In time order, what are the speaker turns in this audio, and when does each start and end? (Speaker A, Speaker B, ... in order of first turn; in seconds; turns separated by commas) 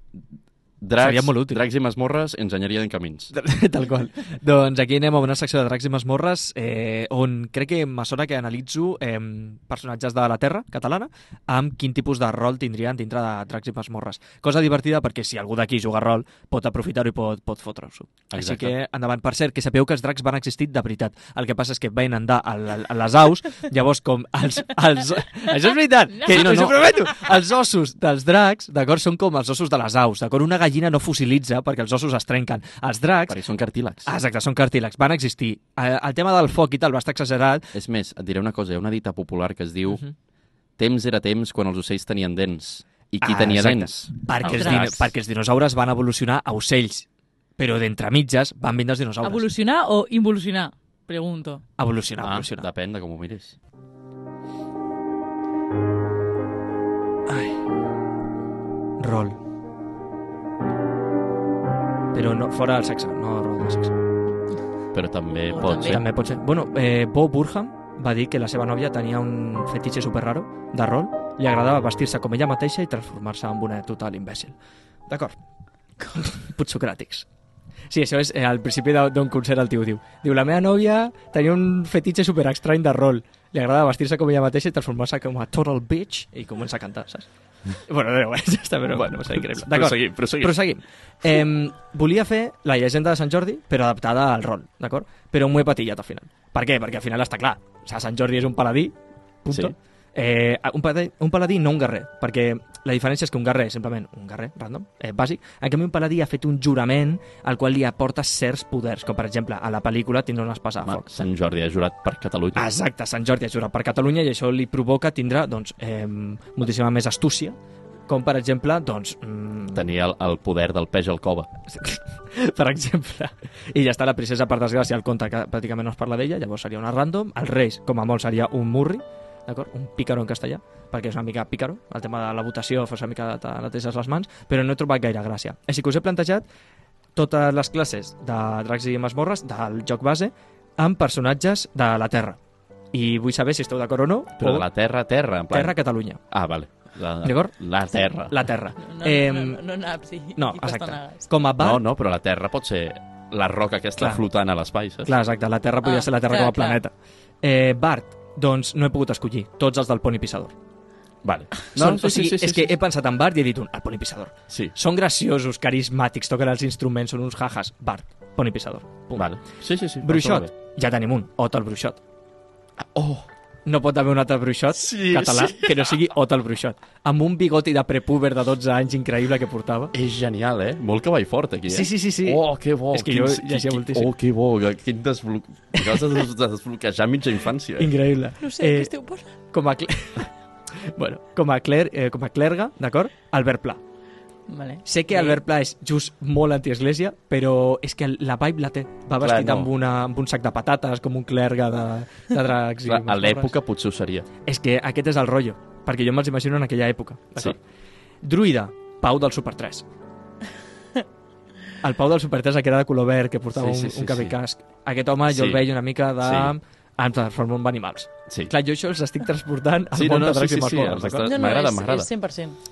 Speaker A: 0.8-3.3, Speaker B: 1.0-1.6, Speaker B: 3.3-33.4, Speaker A: 18.3-18.8, Speaker A: 26.2-26.8, Speaker A: 33.3-34.1, Speaker B: 34.0-37.7, Speaker A: 37.7-40.0, Speaker B: 39.9-40.1, Speaker A: 40.8-45.1, Speaker B: 43.2-47.1, Speaker C: 44.4-44.9, Speaker B: 47.6-49.5, Speaker C: 49.2-51.6, Speaker B: 51.8-52.7, Speaker A: 52.2-53.5, Speaker B: 57.3-57.6, Speaker B: 59.0-59.4, Speaker B: 62.1-63.9, Speaker A: 64.9-66.0, Speaker C: 65.5-66.0, Speaker B: 65.8-74.5, Speaker B: 75.1-75.4, Speaker B: 76.0-77.3, Speaker B: 77.9-111.0, Speaker A: 88.9-90.5, Speaker A: 110.8-112.7, Speaker B: 112.5-119.8, Speaker A: 119.7-121.5, Speaker B: 121.7-136.4, Speaker B: 137.1-142.4, Speaker B: 142.9-144.7, Speaker A: 144.4-145.8, Speaker B: 145.5-146.2, Speaker A: 146.3-148.3, Speaker B: 147.2-149.6, Speaker C: 148.8-151.3, Speaker B: 150.3-151.8, Speaker A: 151.6-155.1, Speaker B: 155.0-160.5, Speaker C: 155.8-156.8, Speaker A: 161.2-162.8, Speaker B: 161.7-169.3, Speaker A: 169.2-170.5, Speaker B: 170.0-172.0, Speaker A: 172.8-173.3, Speaker B: 173.7-179.9, Speaker A: 174.8-176.0, Speaker A: 179.9-187.9, Speaker B: 181.7-184.1, Speaker B: 185.8-186.0, Speaker B: 187.8-188.9, Speaker C: 188.4-189.3, Speaker B: 189.5-193.8, Speaker C: 194.5-195.4, Speaker B: 194.8-203.5, Speaker A: 199.2-199.7, Speaker A: 202.8-204.3, Speaker B: 204.4-207.6, Speaker B: 208.2-209.8, Speaker B: 211.8-221.3, Speaker A: 213.5-214.3, Speaker A: 215.3-215.6, Speaker A: 216.2-216.5, Speaker A: 219.9-222.1, Speaker C: 221.2-222.6